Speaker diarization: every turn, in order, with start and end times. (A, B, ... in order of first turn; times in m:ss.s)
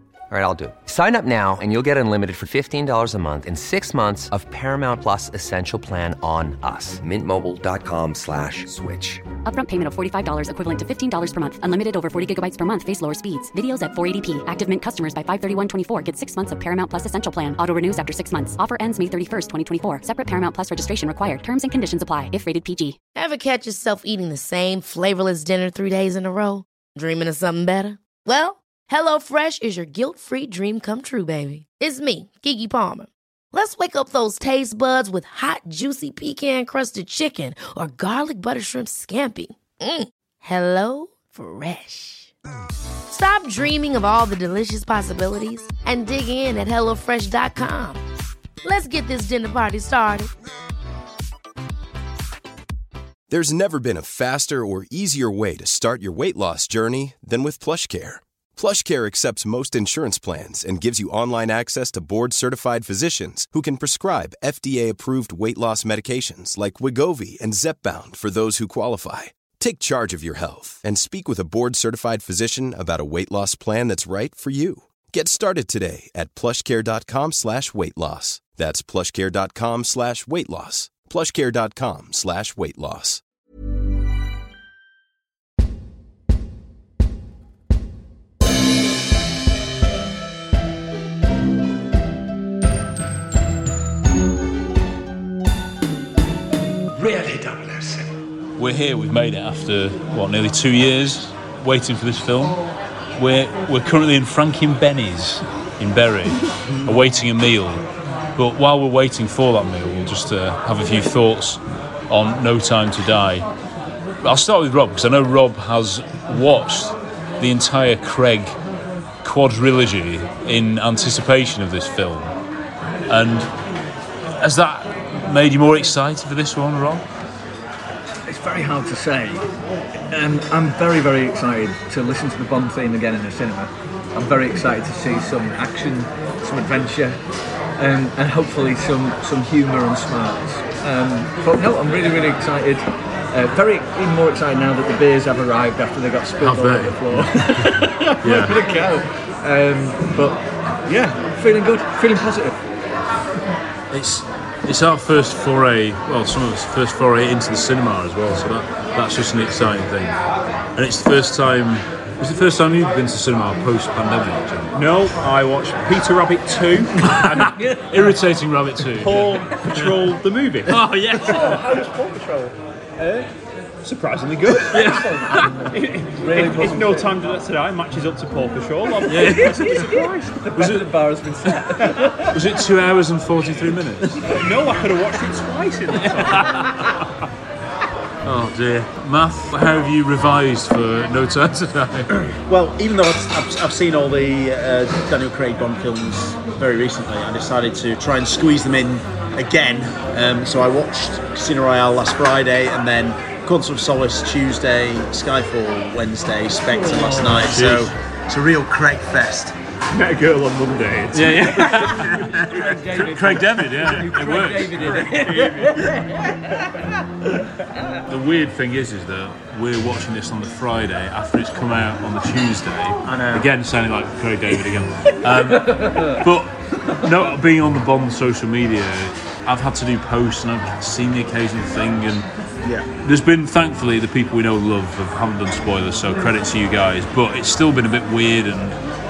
0:00.3-0:09.2 A
0:09.4-0:23.0 B
0:23.2-0:42.3 C
0:43.1-0:48.0 C
0:48.6-0:50.3 C
0:53.3-1:23.2 D
1:37.0-1:38.0 E
1:38.6-1:42.6 F
1:43.2-1:47.8 F
1:48.4-1:53.4 F
1:54.2-1:58.6 F
1:59.2-2:02.3 F
2:03.1-2:03.5 F
2:04.4-2:07.0 F
2:08.3-2:09.5 G
2:10.1-2:17.2 G
2:17.8-2:33.0 G
2:26.4-2:28.6 F
2:33.9-2:40.2 F
2:40.8-2:44.8 F
2:44.7-2:47.5 H
2:47.0-2:51.6 F
2:47.4-2:48.1 G
2:49.0-2:51.4 H
2:51.1-2:52.5 G
2:53.8-2:55.0 H
2:54.6-2:57.1 G
2:54.7-2:55.5 F
2:55.7-3:00.1 H
2:59.0-2:59.9 F
2:59.1-3:02.4 G
3:00.5-3:04.3 F
3:04.2-3:06.7 H
3:06.1-3:06.8 F
3:08.2-3:12.1 F
3:12.4-3:29.5 E
3:26.7-3:27.5 G
3:27.3-3:27.9 F
3:29.9-3:32.6 H
3:31.1-3:35.1 F
3:31.4-3:36.1 G
3:34.8-3:36.1 H
3:38.0-3:52.3 F
3:43.0-3:43.5 E
3:45.4-3:46.2 G
3:53.0-3:58.8 F